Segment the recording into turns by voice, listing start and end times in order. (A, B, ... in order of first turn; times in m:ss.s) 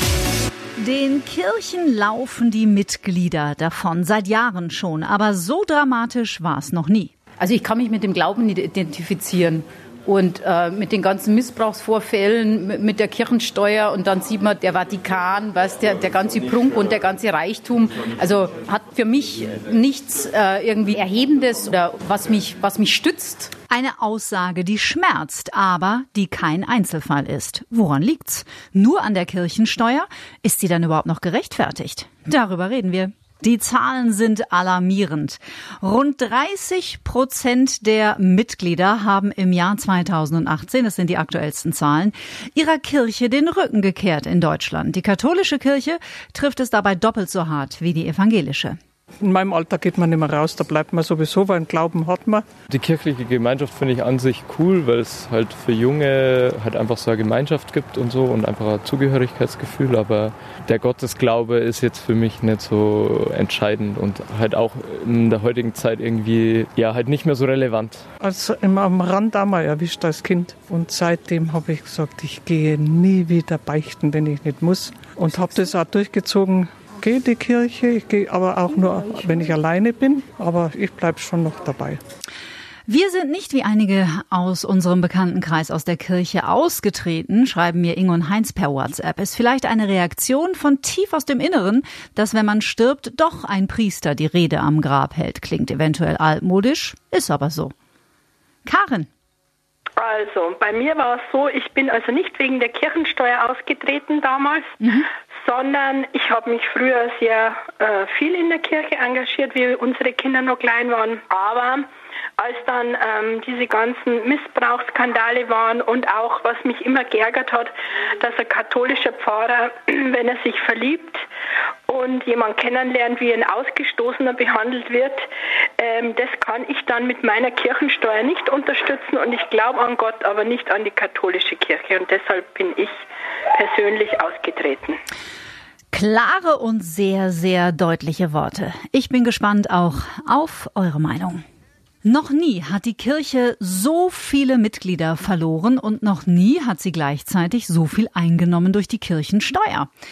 0:00.8-0:07.1 A
0:07.5-0:09.6 B
0:10.2-0:23.4 B
0:23.7-0:48.8 A
0:49.2-0:52.4 C
0:52.7-1:08.1 D
1:08.2-1:22.0 C
1:22.9-1:37.7 A
1:38.6-1:39.1 A
1:40.0-1:44.7 E
1:45.3-1:51.8 E
1:52.4-2:01.2 E
2:01.9-2:05.3 E
2:05.8-2:13.0 E
2:13.5-2:15.0 E
2:15.9-2:21.4 A
2:22.0-2:29.9 A